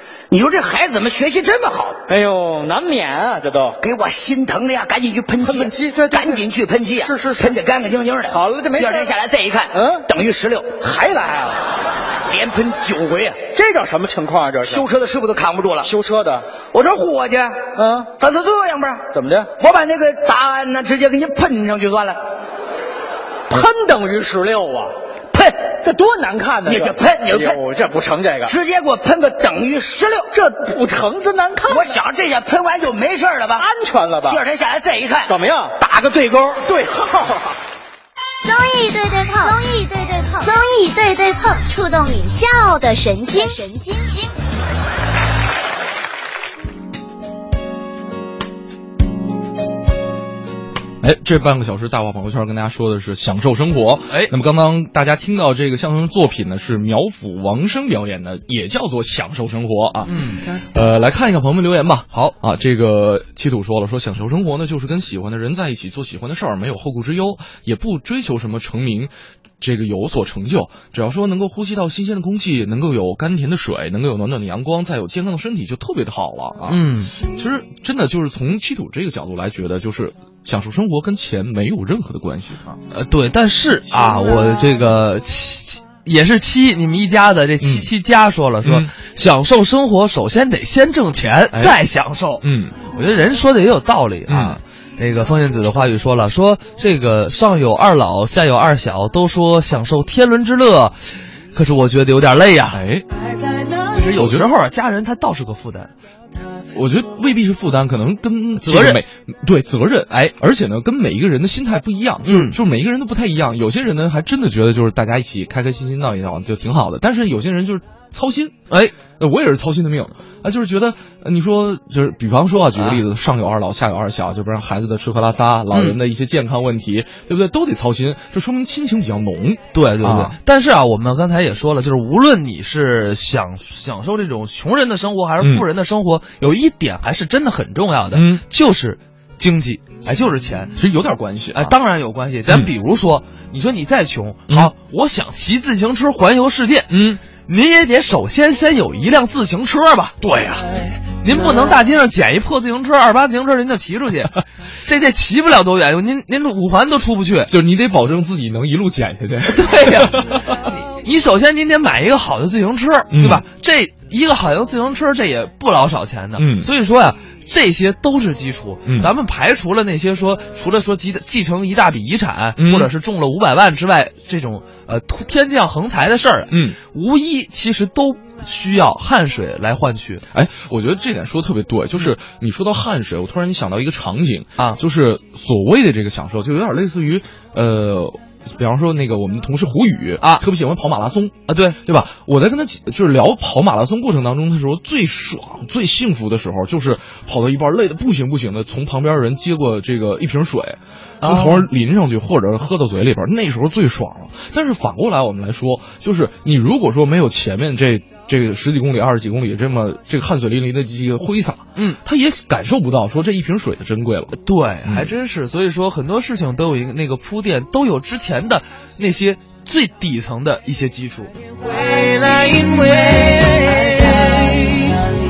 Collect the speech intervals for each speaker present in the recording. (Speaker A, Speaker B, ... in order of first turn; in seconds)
Speaker A: 0.3-2.0, 3.8-10.8, 12.2-13.4, 14.6-15.9, 16.7-22.2, 26.6-27.6, 28.4-30.3, 31.7-33.7, 34.2-36.6
Speaker B: 2.1-3.8, 5.4-6.4, 7.0-7.5, 8.3-9.1, 9.7-10.1, 10.8-11.6, 13.5-14.8, 15.8-16.5, 17.7-18.1, 19.1-19.5, 23.5-24.9, 25.6-28.5, 30.3-31.9, 33.6-34.4, 35.3-35.8, 36.6-37.5
Speaker C: 38.4-44.3
Speaker D: 51.0-82.8, 87.6-87.9, 88.6-88.9, 91.5-91.8, 92.4-92.8, 94.3-94.6, 102.7-103.0, 104.1-104.5, 106.7-130.3, 135.4-135.6, 138.1-138.4, 140.7-141.8, 142.4-142.7, 146.9-147.2, 150.2-150.7, 157.5-160.3, 163.1-163.4, 166.3-166.7, 168.8-169.1, 172.6-172.9, 176.5-176.8, 180.3-215.1
Speaker E: 60.1-60.4, 76.7-77.1, 82.9-101.0, 101.5-102.8, 103.9-105.9, 108.6-109.0, 112.2-112.6, 118.7-118.9, 122.8-123.0, 125.7-126.0, 129.7-140.8, 141.5-150.2, 151.2-157.5, 159.5-180.2, 191.5-191.8, 201.2-201.7, 214.3-221.3
Speaker F: 221.8-225.0